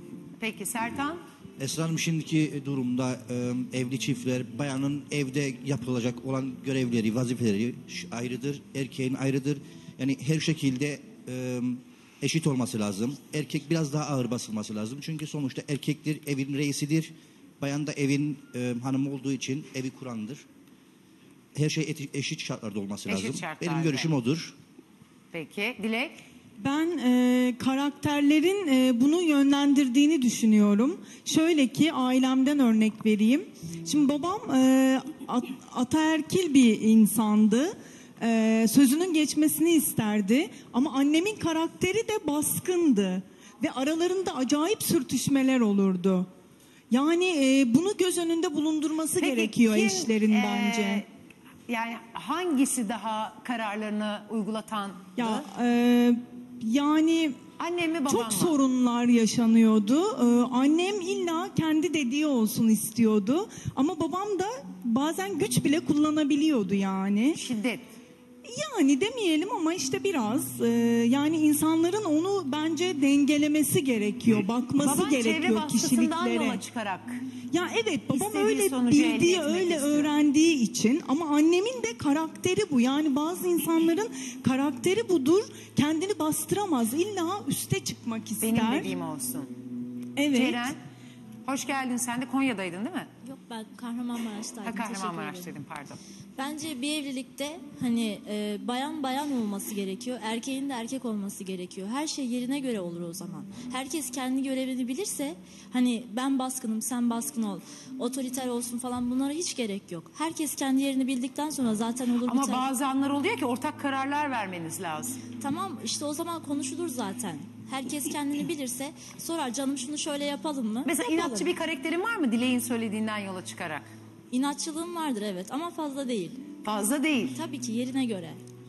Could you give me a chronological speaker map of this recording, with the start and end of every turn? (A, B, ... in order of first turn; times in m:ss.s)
0:00.4-0:01.2 A
0:01.6-0:20.4 B
0:21.5-0:24.5 B
0:23.0-0:24.1 A
0:25.3-0:26.2 A
0:26.6-0:46.3 C
0:46.9-0:51.0 C
0:49.2-0:51.0 A
0:51.7-0:55.4 A
0:55.2-0:57.4 C
0:57.6-0:58.5 A
0:58.1-1:07.4 C
1:07.3-1:07.8 A
1:08.5-1:16.6 C
1:14.8-1:17.2 A
1:17.5-1:28.9 C
1:18.1-1:20.1 A
1:28.4-1:29.5 A
1:30.2-1:30.6 C
1:30.3-1:30.8 A
1:31.4-1:33.1 A
1:33.2-1:35.5 D
1:34.6-1:36.0 A
1:36.4-1:52.6 D
1:52.2-1:55.2 A
1:55.4-2:01.5 D
2:00.8-2:03.8 A
2:04.3-2:06.4 D
2:06.6-2:07.4 A
2:07.3-2:08.4 D